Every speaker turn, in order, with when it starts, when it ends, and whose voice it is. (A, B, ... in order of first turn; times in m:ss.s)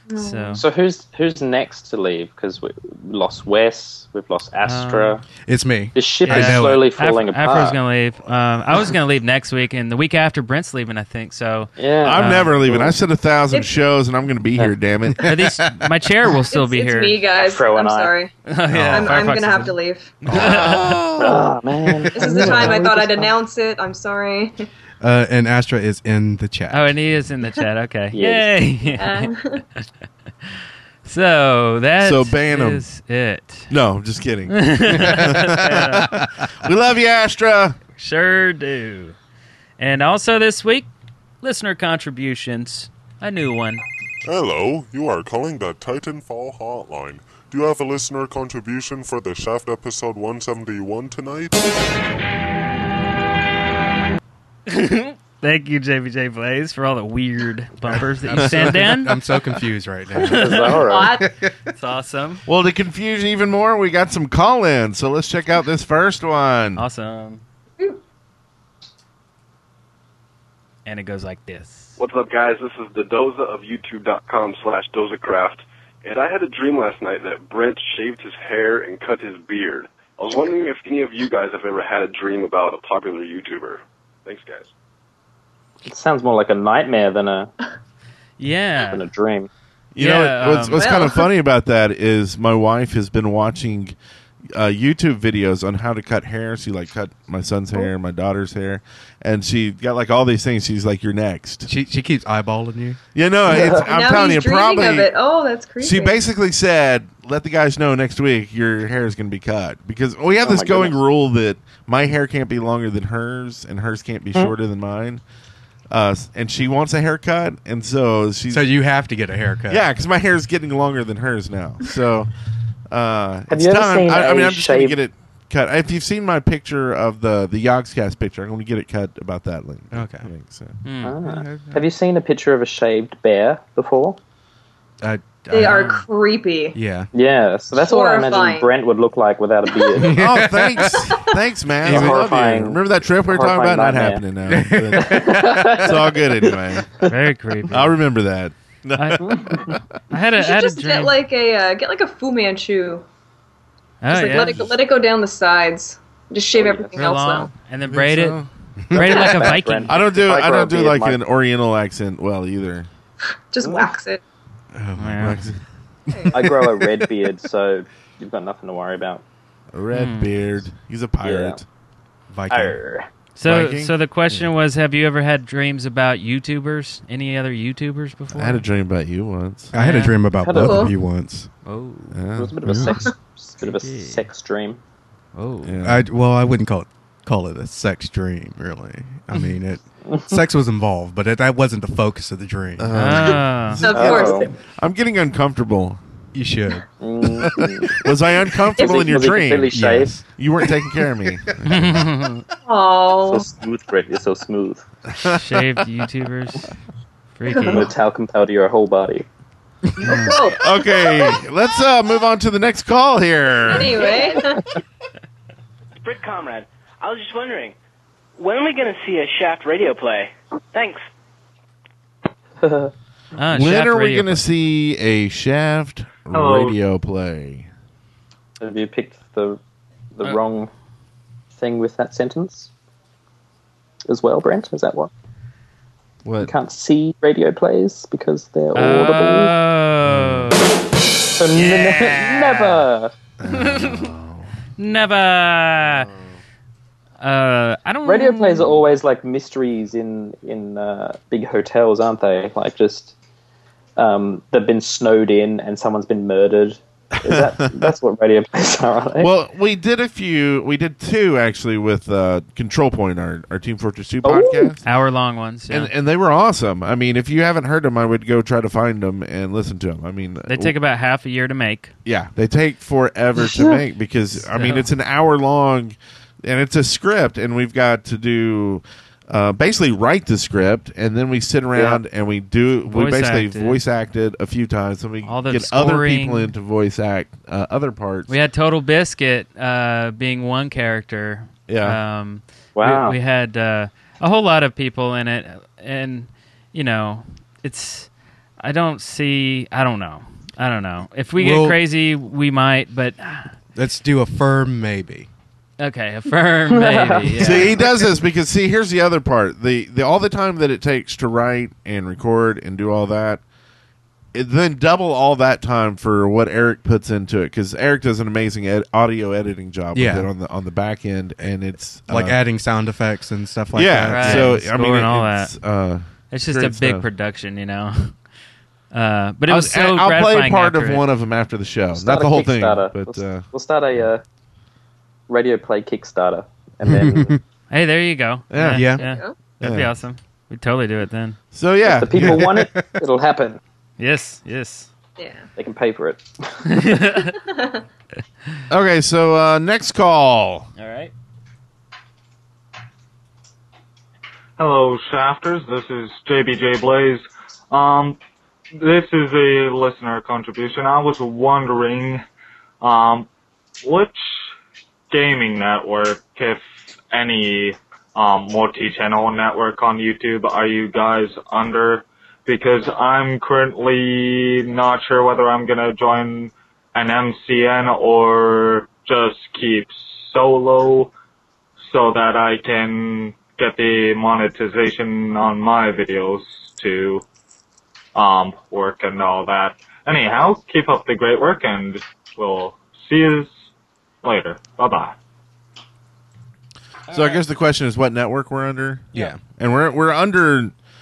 0:00.1-0:00.6 A
0:00.2-0:00.6 B
0:00.6-0:05.2 C
0:04.6-0:05.2 B
0:05.5-0:06.8 D
0:06.0-0:07.8 C
0:06.2-0:12.6 B
0:11.8-0:13.0 C
0:12.0-0:15.3 E
0:15.2-0:17.2 B
0:16.5-0:18.3 A
0:17.4-0:18.2 C
0:18.5-0:19.8 B
0:18.7-0:19.2 D
0:18.9-0:20.2 A
0:20.3-0:20.8 D
0:20.3-0:21.4 E
0:20.3-0:21.0 B
0:21.2-0:23.3 C
0:22.0-0:22.6 D
0:22.2-0:24.7 A
0:25.0-0:26.9 D
0:26.7-0:29.9 B
0:28.1-0:28.6 C
0:29.0-0:29.6 A
0:31.0-0:33.7 B
0:32.0-0:32.8 E
0:33.7-0:37.8 E
0:34.5-0:36.1 B
0:38.0-0:39.2 B
0:39.8-0:40.9 B
0:41.4-0:43.8 B
0:44.2-0:51.7 F
0:54.7-0:59.2 B
0:58.2-1:01.5 D
0:58.3-0:58.8 E
1:00.2-1:00.8 B
1:00.2-1:01.2 C
1:00.9-1:01.3 A
1:01.7-1:02.4 B
1:02.5-1:06.8 E
1:06.8-1:07.4 B
1:10.8-1:12.0 B
1:12.0-1:24.7 G
1:25.8-1:27.5 C
1:28.4-1:29.0 B
1:28.9-1:29.5 C
1:29.9-1:34.0 E
1:30.0-1:30.8 B
1:30.8-1:31.3 A
1:34.5-1:41.7 E
1:41.7-1:43.0 D
1:43.2-1:45.1 E
1:43.5-1:43.9 C
1:43.8-1:46.2 A
1:45.8-1:55.2 E
1:50.4-1:51.0 C
1:55.9-1:58.7 E
1:58.5-1:59.9 D
1:59.7-2:02.3 E
2:02.9-2:10.8 E
2:03.5-2:05.0 C
2:09.9-2:10.3 D
2:10.8-2:11.2 B
2:11.0-2:14.2 C
2:11.2-2:11.8 D
2:15.0-2:16.0 D
2:15.5-2:16.8 A
2:15.6-2:16.0 B
2:16.8-2:17.1 D
2:17.1-2:20.3 C
2:17.8-2:18.7 A
2:20.0-2:21.2 D
2:20.1-2:26.9 E
2:21.8-2:22.3 D
2:21.9-2:24.2 C
2:24.5-2:25.9 D
2:25.0-2:27.1 C
2:27.1-2:28.0 B
2:27.7-2:29.8 E
2:29.0-2:31.2 B
2:29.2-2:29.8 C
2:30.4-2:33.0 A
2:34.0-2:34.7 B
2:34.1-2:37.5 A
2:36.5-2:37.0 C
2:37.0-2:40.0 B
2:37.9-2:38.5 E
2:38.9-2:39.2 D
2:39.0-2:41.2 C
2:39.9-2:42.9 E
2:43.5-2:44.2 A
2:43.6-2:43.9 C
2:44.7-2:45.4 D
2:45.0-2:45.4 B
2:45.2-2:45.6 E
2:46.3-2:49.2 C
2:49.7-2:51.6 E
2:49.9-2:50.4 B
2:51.2-2:51.6 C
2:52.3-2:52.8 D
2:52.5-2:53.1 C
2:53.4-2:58.6 B
2:53.4-2:53.9 E
2:58.3-2:59.7 E
2:59.7-3:01.5 D
2:59.7-3:00.2 B
3:00.4-3:00.9 C
3:00.6-3:00.9 A
3:01.6-3:02.2 B
3:02.1-3:02.5 E
3:02.4-3:04.8 C
3:02.7-3:02.9 D
3:03.7-3:04.2 B
3:05.4-3:05.8 B
3:05.6-3:06.0 E
3:05.8-3:13.2 D
3:10.1-3:10.3 C
3:12.8-3:16.0 E
3:12.9-3:13.9 B
3:13.8-3:14.5 A
3:13.9-3:14.5 C
3:16.3-3:16.9 D
3:17.0-3:18.0 C
3:17.4-3:22.1 E
3:18.8-3:20.2 C
3:18.8-3:19.1 A
3:19.7-3:20.2 D
3:21.7-3:22.4 B
3:22.7-3:23.5 A
3:23.2-3:24.8 C
3:25.1-3:25.6 E
3:25.2-3:26.7 B
3:27.4-3:27.9 B
3:27.5-3:27.8 A
3:27.7-3:29.2 C
3:30.0-3:31.4 A
3:30.5-3:34.1 E
3:33.7-3:34.6 A
3:36.0-3:37.8 H
3:38.4-3:41.0 H
3:42.6-3:42.9 C
3:43.4-3:44.4 B
3:43.5-3:47.7 E
3:46.3-3:46.8 I
3:48.6-3:49.6 C
3:50.2-3:50.7 C
3:51.6-3:52.7 C
3:54.1-3:55.1 C
3:56.2-3:56.5 E
3:56.4-3:59.5 C
3:58.7-4:00.8 B
4:00.1-4:00.5 E
4:01.2-4:03.1 C
4:01.5-4:02.9 B
4:03.4-4:04.5 E
4:03.5-4:04.1 B
4:04.8-4:06.1 B
4:05.8-4:06.4 E
4:07.2-4:08.8 B
4:08.0-4:13.1 C
4:14.0-4:19.3 C
4:17.2-4:17.9 E
4:19.2-4:24.8 E
4:24.2-4:24.8 C
4:24.8-4:25.9 B
4:25.7-4:30.8 E
4:30.5-4:31.9 B
4:32.0-4:48.4 E
4:33.4-4:33.8 C
4:34.3-4:34.9 B
4:42.9-4:43.8 B
4:45.2-4:46.5 B
4:48.3-4:58.1 B
4:51.7-4:52.0 E
4:52.8-4:53.2 C
4:58.6-5:03.5 B
5:01.4-5:01.8 D
5:03.8-5:05.3 D
5:05.8-5:07.8 B
5:06.7-5:07.6 C
5:07.4-5:13.4 E
5:14.3-5:22.4 E
5:19.9-5:20.3 D
5:22.1-5:24.6 D
5:23.7-5:27.1 E
5:24.1-5:25.6 B
5:26.3-5:28.2 B
5:28.9-5:31.0 B
5:29.5-5:33.5 E
5:31.9-5:34.2 C
5:35.3-5:37.4 C
5:36.8-5:37.4 D
5:37.7-5:41.4 B
5:38.5-5:38.9 E
5:38.7-5:39.0 D
5:39.0-5:39.3 A
5:39.6-5:39.9 E
5:41.5-5:42.5 E
5:41.8-5:43.6 C
5:42.2-5:43.0 D
5:44.0-5:44.9 B
5:45.2-5:45.5 A
5:45.6-5:46.9 C
5:46.7-5:47.4 B
5:47.5-5:47.8 A
5:48.7-5:50.7 E
5:50.8-5:51.1 B
5:54.6-5:58.2 I
5:58.8-6:02.2 I
6:02.8-6:03.3 I
6:03.8-6:04.2 I
6:05.1-6:21.1 I
6:21.8-6:27.2 I
6:28.2-6:33.5 I
6:34.2-6:35.2 I
6:37.1-6:40.7 E
6:39.1-6:39.4 D